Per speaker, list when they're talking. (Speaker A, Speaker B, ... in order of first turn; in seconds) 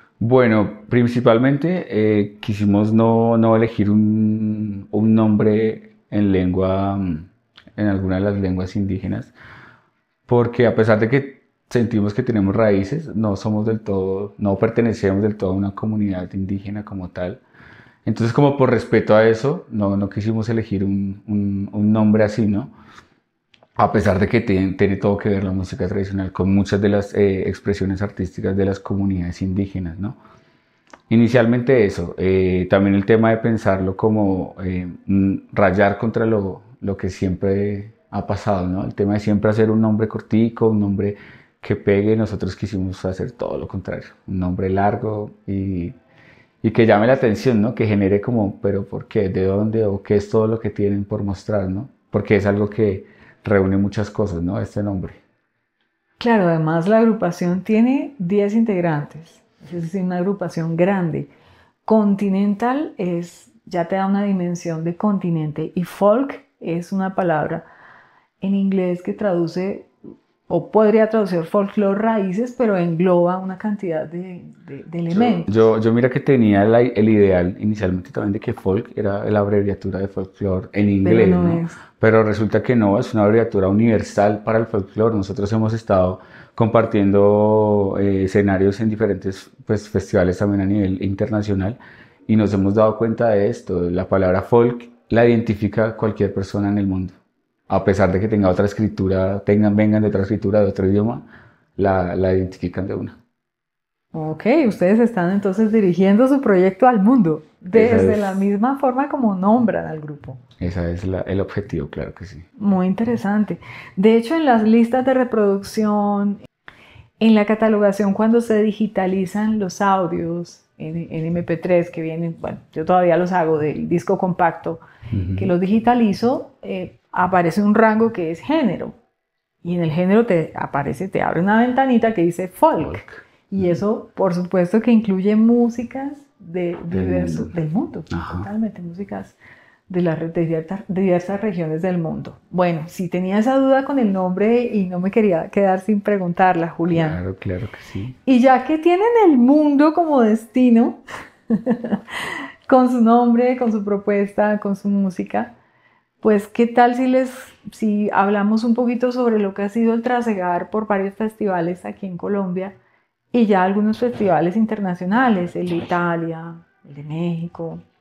Speaker A: 0.2-9.3, 10.3-17.4, 18.0-22.7, 23.8-30.2, 31.1-46.0, 46.6-55.2, 75.1-97.2, 97.7-101.2, 101.8-103.2, 107.7-108.4, 110.6-112.5, 125.1-125.5, 136.9-137.5, 138.1-138.5, 146.9-148.2
Speaker B: 56.2-61.3, 61.9-67.6, 68.4-69.9, 70.5-75.5, 81.0-81.8, 104.1-110.4, 112.6-116.4, 117.2-124.8, 125.3-129.0, 129.6-139.4, 139.9-147.2, 148.2-152.0, 152.7-155.5, 156.2-162.8, 163.3-167.8